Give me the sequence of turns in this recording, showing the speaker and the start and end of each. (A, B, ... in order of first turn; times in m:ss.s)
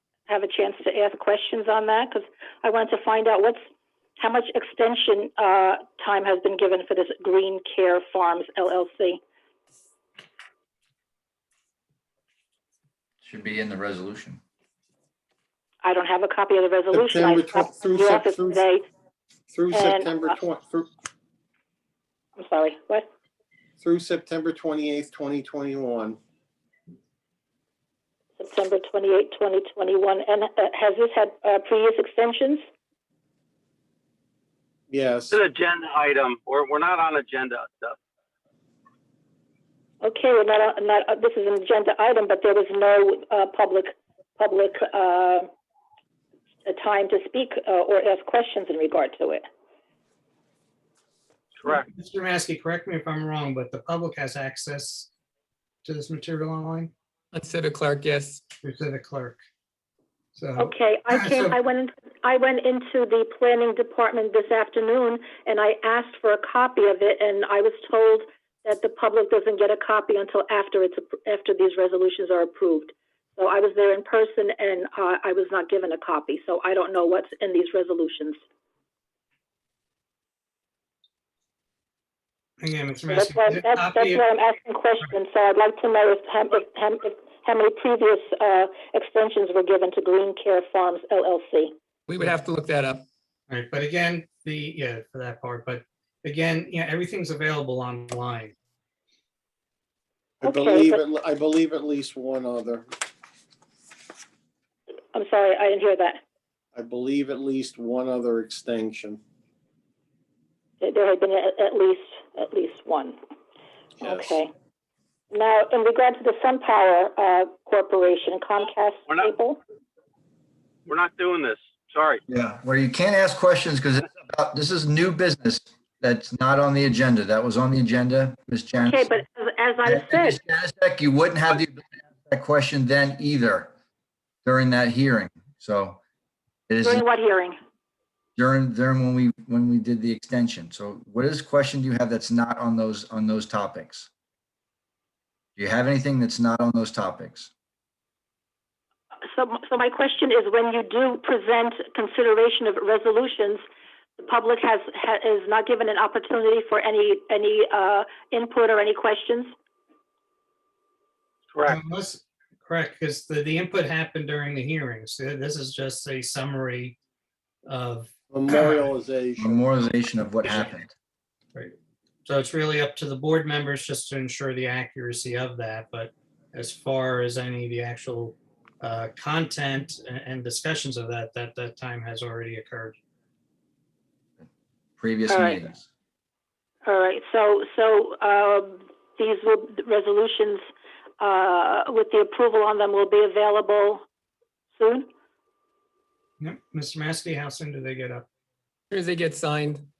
0:00.3-0:03.6 A
0:04.2-0:09.2 A
0:13.2-0:14.4 B
0:15.8-0:18.8 A
0:16.9-0:18.6 C
0:19.5-0:20.9 C
0:19.7-0:20.3 A
0:22.4-0:23.1 A
0:23.8-0:26.2 C
0:28.4-0:32.6 A
0:34.9-0:35.4 C
0:35.3-0:38.0 D
0:40.0-0:45.5 A
0:46.6-0:49.4 A
0:51.6-0:51.9 D
0:51.6-0:55.1 E
0:55.8-0:56.9 E
0:57.3-0:58.4 F
0:58.6-0:59.4 E
1:00.4-1:01.5 E
1:00.6-1:18.4 A
1:22.6-1:24.2 E
1:23.1-1:31.7 A
1:32.1-1:33.0 F
1:33.5-1:38.5 E
1:40.4-1:42.9 C
1:40.4-1:41.0 A
1:45.1-1:46.2 A
1:46.7-1:49.2 C
1:50.8-1:53.2 A
1:54.0-1:54.4 C
1:54.0-1:54.5 A
1:55.3-1:59.6 A
2:00.9-2:02.2 D
2:02.3-2:09.1 B
2:08.8-2:10.4 A
2:09.8-2:13.7 B
2:14.4-2:16.0 B
2:16.7-2:17.0 B
2:16.8-2:17.6 A
2:18.4-2:24.1 B
2:25.6-2:27.5 B
2:29.3-2:33.6 A
2:34.2-2:39.5 A
2:41.5-2:41.8 D
2:41.6-2:47.0 E
2:47.6-2:48.8 E
2:48.3-2:49.7 C
2:49.4-2:50.9 B
2:52.2-3:03.0 E
3:05.0-3:05.8 B
3:05.3-3:05.6 A
3:06.8-3:10.6 A
3:11.2-3:14.0 A
3:14.8-3:15.1 A
3:16.4-3:18.3 E
3:18.9-3:19.9 F